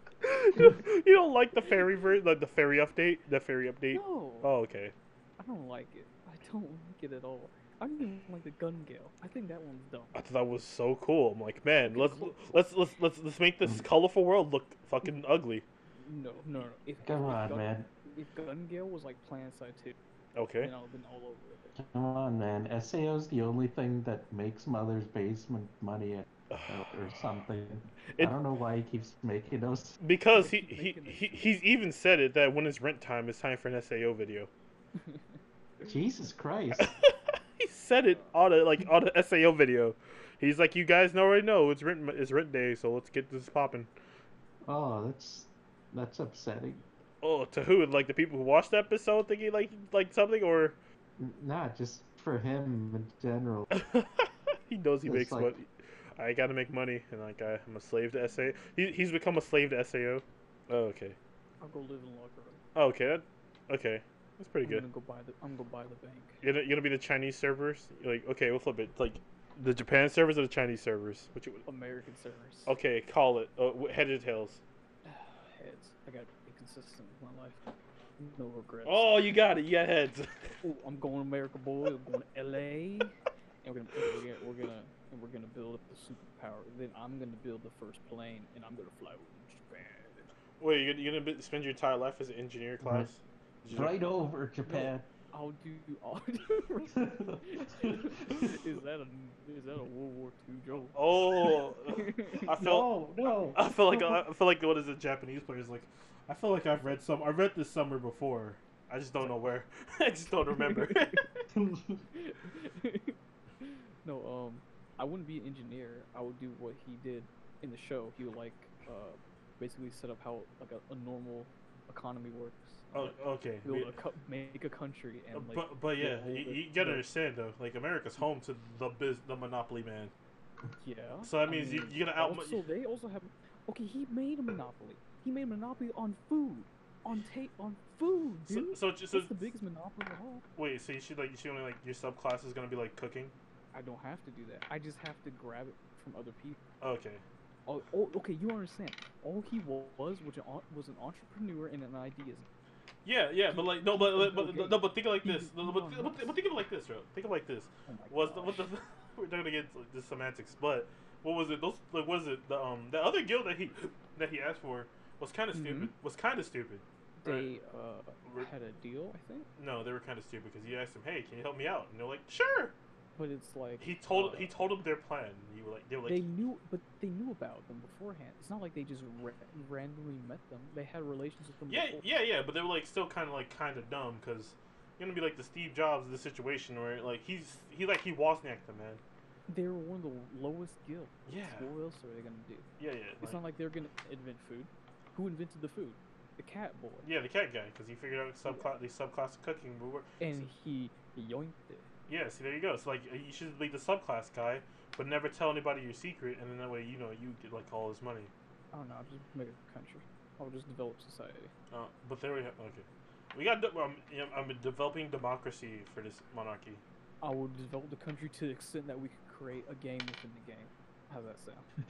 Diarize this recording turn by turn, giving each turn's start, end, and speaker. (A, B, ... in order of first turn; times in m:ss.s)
0:00.2-0:04.9 A
0:03.9-0:04.5 B
0:05.4-0:10.1 B
0:10.1-0:15.6 A
0:11.9-0:12.4 B
0:16.0-0:20.0 B
0:17.0-0:17.9 C
0:20.3-0:20.7 A
0:20.6-0:21.7 B
0:21.7-0:30.0 C
0:26.5-0:27.2 A
0:30.0-0:34.5 A
0:30.3-0:31.5 B
0:35.0-0:36.0 B
0:35.8-0:36.9 C
0:36.8-0:43.9 A
0:44.6-0:46.8 C
0:47.2-0:50.8 A
0:51.2-0:53.7 C
0:53.7-1:01.2 A
0:55.0-0:55.5 C
1:01.6-1:02.6 B
1:02.7-1:04.8 A
1:04.6-1:06.4 B
1:06.4-1:11.6 A
1:11.6-1:12.7 B
1:12.6-1:14.6 A
1:15.0-1:17.6 B
1:18.2-1:19.2 B
1:18.8-1:20.6 A
1:20.6-1:30.2 B
1:30.6-1:34.0 A
1:32.8-1:33.1 C
1:33.7-1:35.1 C
1:34.6-1:42.6 B
1:36.9-1:38.5 C
1:40.9-1:42.9 A
1:42.6-1:44.2 C
1:43.5-1:51.2 A
1:49.2-1:49.4 B
1:50.5-1:51.4 B
1:51.5-1:52.0 C
1:52.1-2:07.0 B
2:02.9-2:03.9 A
2:05.3-2:10.1 A
2:10.8-2:20.4 B
2:11.2-2:12.6 A
2:18.5-2:19.5 A
2:20.6-2:23.3 A
2:23.7-2:26.6 B
2:26.8-2:27.2 A
2:27.6-2:32.5 B
2:33.0-2:47.5 A
2:33.5-2:36.3 B
2:37.9-2:38.7 B
2:45.5-2:45.9 B
2:47.2-2:49.5 B
2:48.2-2:48.5 A
2:49.6-2:52.7 A
2:53.2-2:54.5 B
2:53.8-2:56.2 A
2:56.0-3:02.0 B
3:01.7-3:09.0 A
3:09.5-3:12.7 B
3:11.2-3:11.7 A
3:12.8-3:13.4 A
3:13.2-3:17.0 B
3:17.0-3:20.5 A
3:20.2-3:21.9 B
3:22.1-3:28.3 A
3:28.7-3:31.5 B
3:31.7-3:36.8 A
3:37.2-3:41.6 B